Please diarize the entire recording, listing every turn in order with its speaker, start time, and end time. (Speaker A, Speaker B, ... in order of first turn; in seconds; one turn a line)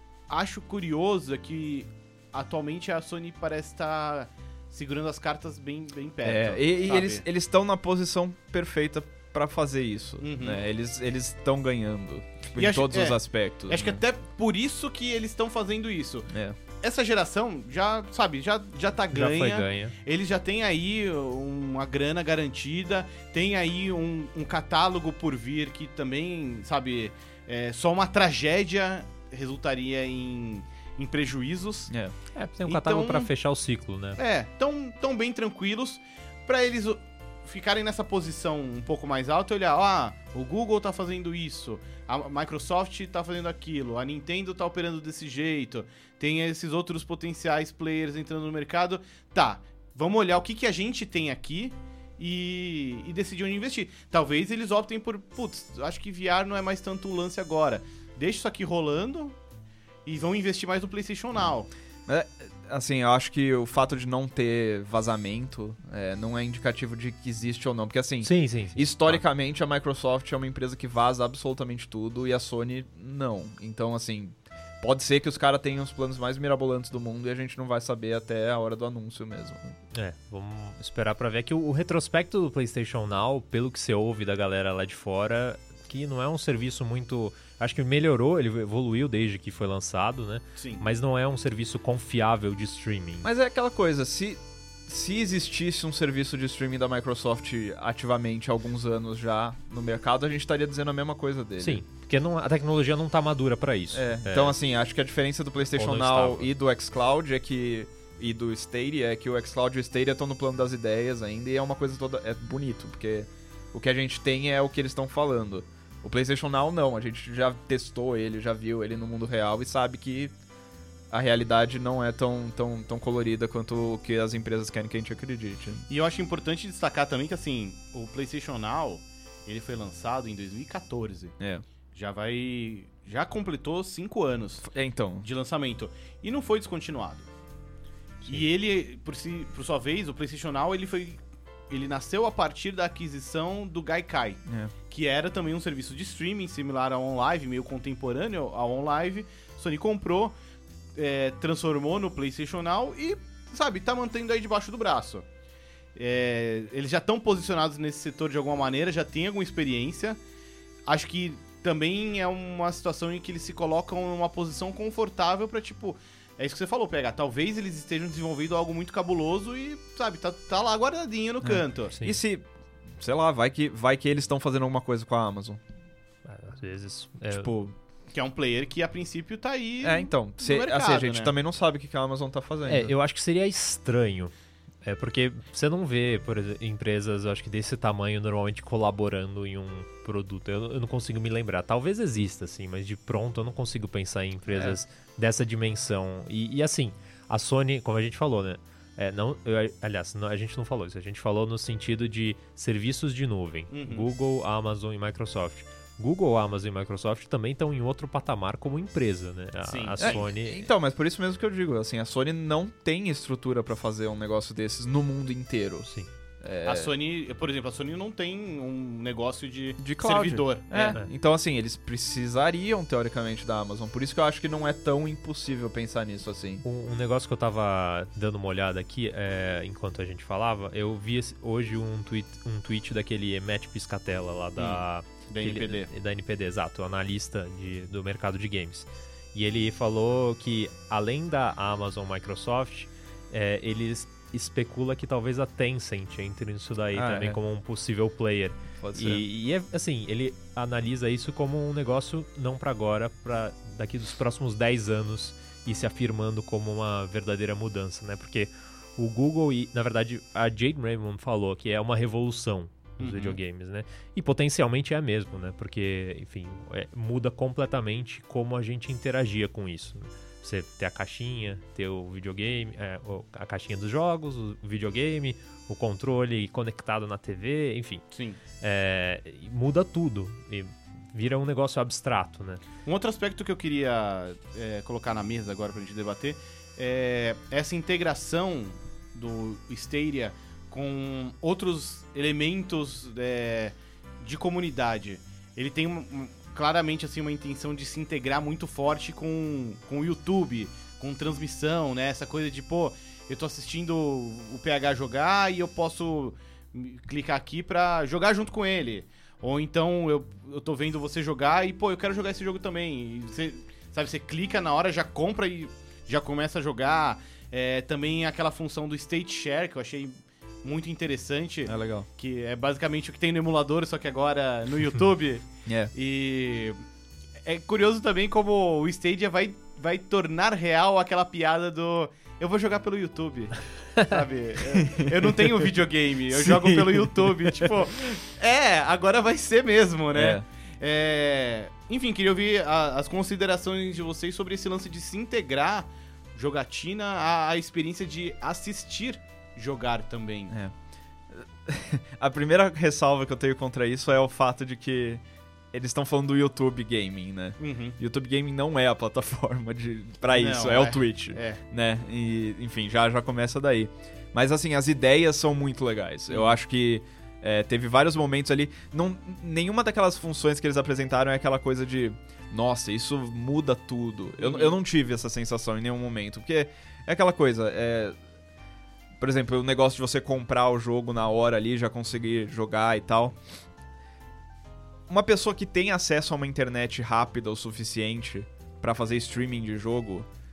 Speaker A: 0.3-7.2
Speaker B: 6.2-14.0
Speaker A: 10.2-10.6
Speaker A: 12.6-16.3
Speaker B: 16.3-16.6
Speaker A: 16.8-31.9
Speaker C: 19.1-19.9
Speaker B: 31.9-32.1
Speaker C: 32.4-34.2
Speaker A: 32.7-33.3
Speaker A: 34.2-59.4
Speaker A: 60.0-61.7
Speaker B: 62.1-79.8
Speaker C: 68.2-69.2
Speaker C: 79.9-93.3
Speaker A: 90.6-90.8
Speaker B: 93.2-101.8
Speaker C: 101.6-104.6
Speaker B: 103.9-120.3
Speaker C: 105.8-106.5
Speaker B: 121.1-125.9
Speaker A: 125.9-131.3
Speaker A: 131.9-134.7
Speaker B: 134.7-135.3
Speaker A: 135.2-137.3
Speaker A: 138.3-150.3
Speaker B: 144.5-144.7
Speaker A: 150.9-155.2
Speaker A: 155.9-160.2
Speaker A: 160.9-171.9
Speaker B: 171.4-172.5
Speaker B: 173.0-175.6
Speaker C: 176.2-177.5
Speaker B: 177.3-177.8
Speaker A: 178.1-181.3
Speaker B: 179.8-182.9
Speaker C: 182.7-184.3
Speaker C: 184.8-210.7
Speaker A: 194.5-194.8
Speaker A: 203.7-204.1
Speaker A: 209.6-210.3
Speaker B: 210.0-215.9
Speaker B: 216.4-216.9
Speaker A: 216.6-221.0
Speaker B: 219.8-226.6
Speaker C: 226.6-278.0
Speaker A: 234.6-235.9
Speaker B: 246.9-247.4
Speaker B: 248.8-249.2
Speaker A: 263.0-263.4
Speaker A: 278.1-278.4
Speaker C: 278.6-282.6
Speaker A: 282.9-320.1
Speaker A: 320.6-326.8
Speaker B: 321.7-322.1
Speaker B: 325.7-325.9
Speaker A: 327.4-350.5
Speaker B: 334.7-335.6
Speaker B: 336.3-337.7
Speaker B: 340.1-340.4
Speaker B: 351.3-378.2
Speaker A: 357.6-358.0
Speaker A: 360.3-361.6
Speaker A: 366.3-366.5
Speaker A: 374.4-374.8
Speaker B: 379.2-383.4
Speaker B: 385.1-390.3